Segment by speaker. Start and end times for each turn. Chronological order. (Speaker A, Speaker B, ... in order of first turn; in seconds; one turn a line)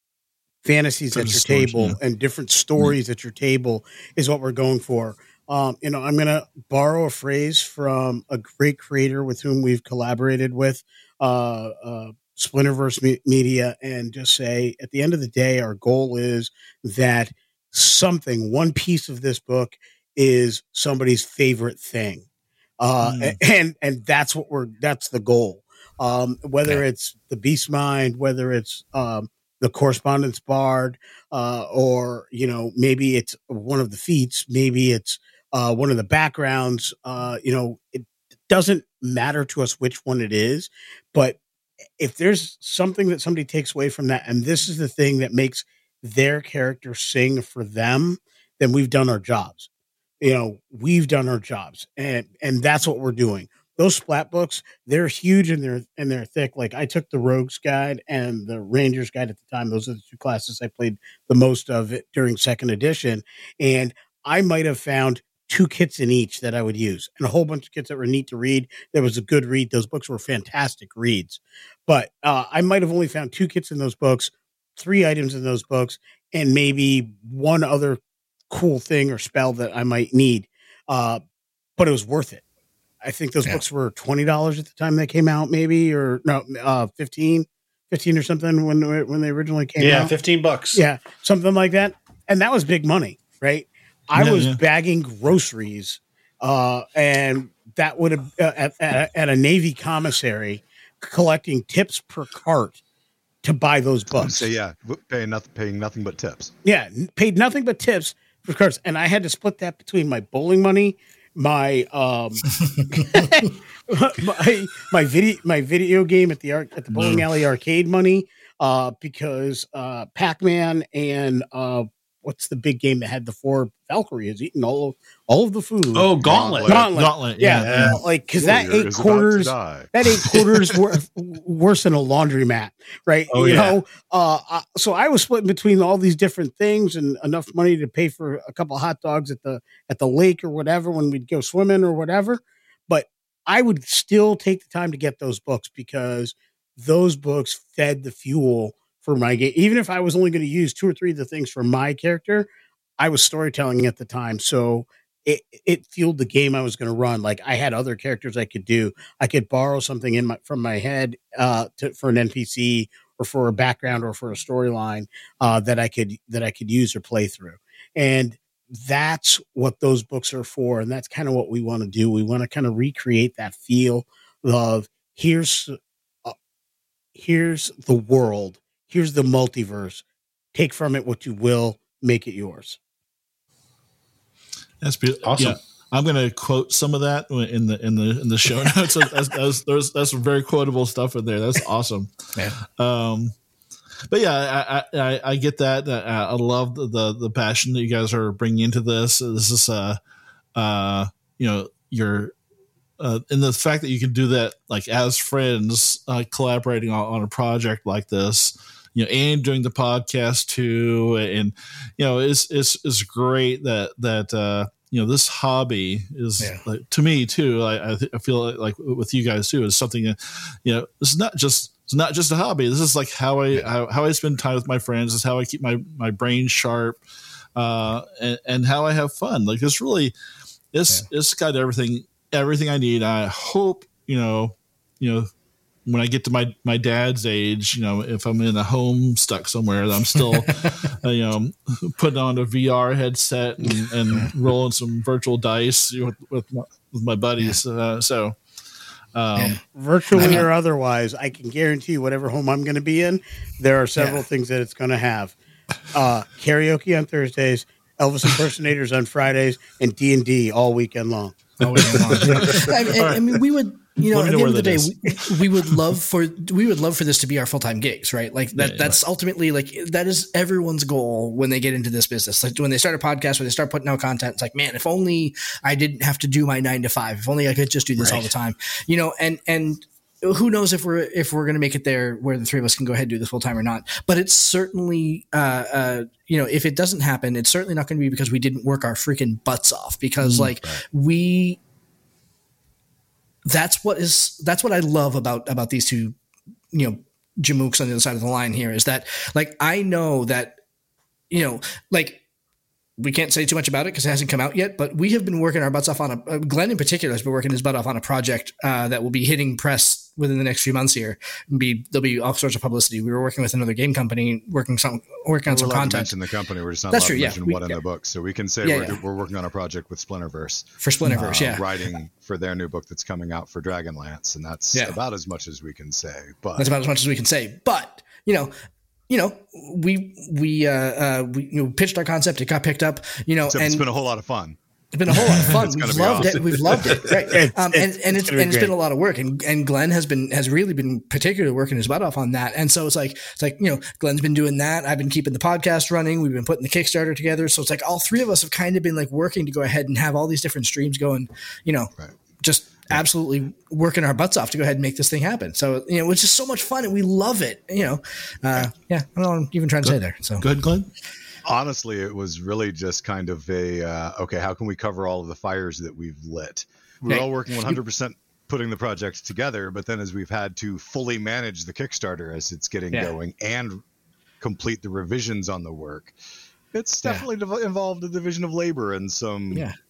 Speaker A: 0.6-22.2
Speaker B: 1.1-2.0
Speaker A: 22.8-41.4
Speaker B: 23.0-23.4
Speaker A: 42.0-49.7
Speaker A: 50.2-81.2
Speaker A: 81.8-82.4
Speaker A: 83.0-90.1
Speaker C: 89.8-90.8
Speaker A: 90.7-102.8
Speaker B: 94.2-94.6
Speaker A: 103.4-104.5
Speaker D: 104.1-106.5
Speaker A: 106.6-176.3
Speaker B: 116.9-117.2
Speaker C: 125.9-126.9
Speaker D: 126.2-126.9
Speaker B: 126.9-128.0
Speaker C: 127.5-128.0
Speaker D: 128.4-129.9
Speaker C: 133.3-133.8
Speaker A: 177.1-180.0
Speaker A: 180.5-182.8
Speaker B: 184.8-192.2
Speaker C: 185.2-185.6
Speaker B: 192.7-193.3
Speaker B: 194.1-200.0
Speaker B: 200.5-202.3
Speaker B: 203.0-227.0
Speaker B: 227.6-230.1
Speaker B: 230.7-235.3
Speaker B: 235.8-248.4
Speaker B: 249.1-249.6
Speaker A: 249.7-255.3
Speaker E: 250.2-250.5
Speaker E: 253.9-254.2
Speaker A: 255.9-261.4
Speaker B: 261.6-263.4
Speaker E: 261.6-291.6
Speaker B: 264.0-265.8
Speaker B: 268.5-268.9
Speaker B: 290.2-290.5
Speaker E: 293.5-296.1
Speaker E: 296.7-300.6
Speaker E: 301.3-302.2
Speaker E: 303.0-316.1
Speaker D: 315.4-326.7
Speaker E: 316.9-317.8
Speaker E: 318.6-319.0
Speaker E: 320.8-321.6
Speaker E: 326.6-328.5
Speaker E: 329.1-333.8
Speaker D: 333.5-334.6
Speaker E: 334.9-360.4
Speaker D: 335.1-336.9
Speaker C: 336.7-337.1
Speaker A: 337.3-338.7
Speaker B: 359.8-360.9
Speaker D: 361.4-373.8
Speaker E: 367.1-367.8
Speaker D: 374.4-376.1
Speaker D: 376.7-379.7